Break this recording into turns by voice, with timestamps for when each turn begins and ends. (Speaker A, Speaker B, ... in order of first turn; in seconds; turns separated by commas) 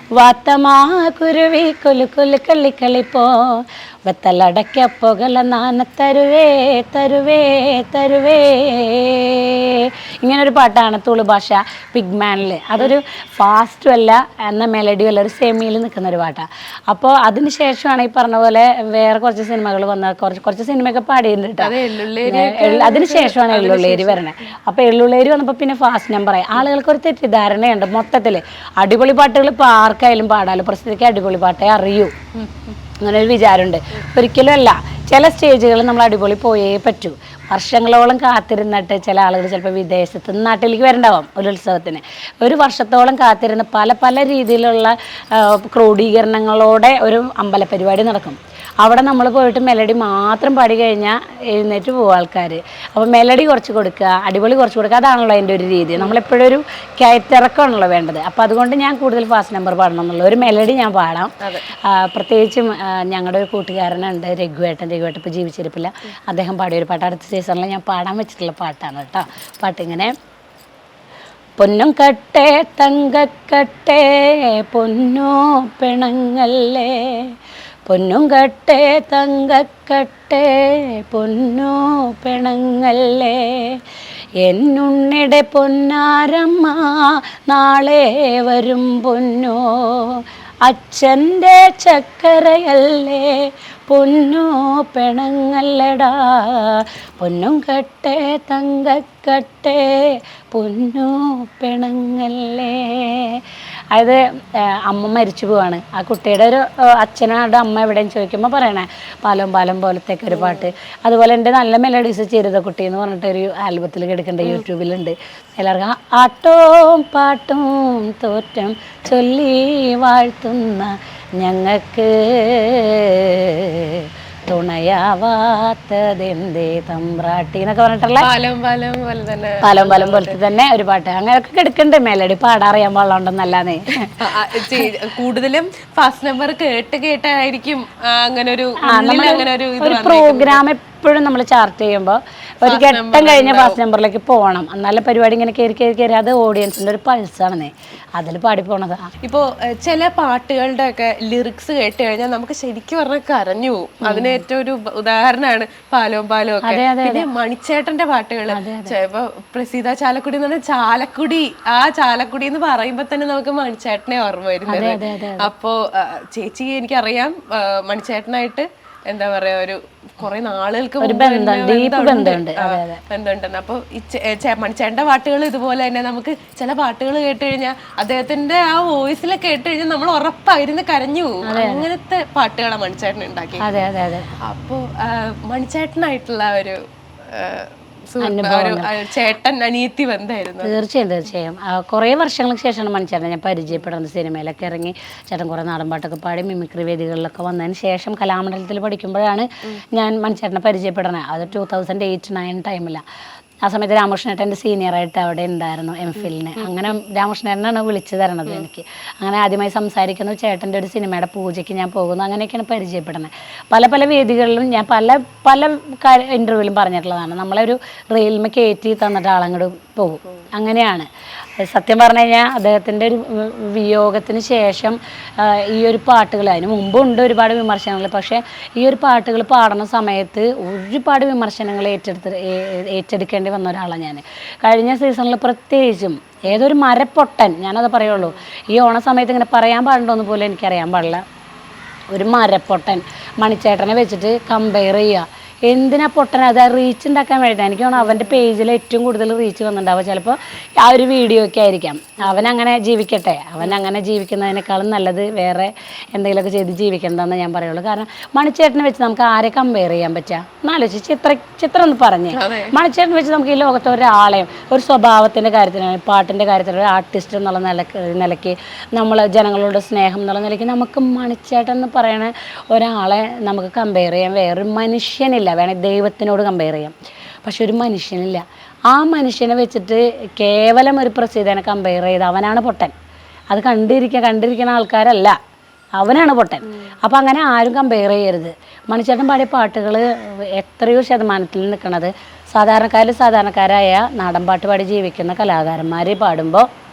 Speaker A: 0.1-21.7, Speaker B: 21.6-24.2, Speaker A: 22.2-32.1, Speaker B: 32.4-32.7, Speaker A: 33.0-70.1, Speaker B: 56.0-56.2, Speaker A: 71.6-77.3, Speaker A: 77.9-83.8, Speaker A: 84.4-128.3, Speaker B: 110.3-110.7, Speaker B: 128.2-130.4, Speaker A: 129.6-134.8, Speaker B: 134.2-140.6, Speaker A: 138.8-149.1, Speaker B: 142.7-143.8, Speaker B: 149.2-183.7, Speaker A: 154.0-154.4, Speaker A: 156.6-157.2, Speaker A: 158.5-158.9, Speaker A: 164.7-165.5, Speaker A: 171.0-173.0, Speaker A: 181.4-181.8, Speaker A: 183.6-184.3, Speaker B: 184.4-190.7, Speaker A: 188.2-188.9, Speaker A: 190.6-203.0, Speaker A: 203.6-241.2, Speaker B: 206.2-206.7, Speaker B: 238.0-238.4, Speaker A: 242.1-282.9, Speaker B: 247.9-248.4, Speaker B: 252.3-252.5, Speaker B: 253.6-253.9, Speaker B: 262.3-262.7, Speaker A: 283.5-285.4, Speaker A: 286.0-296.7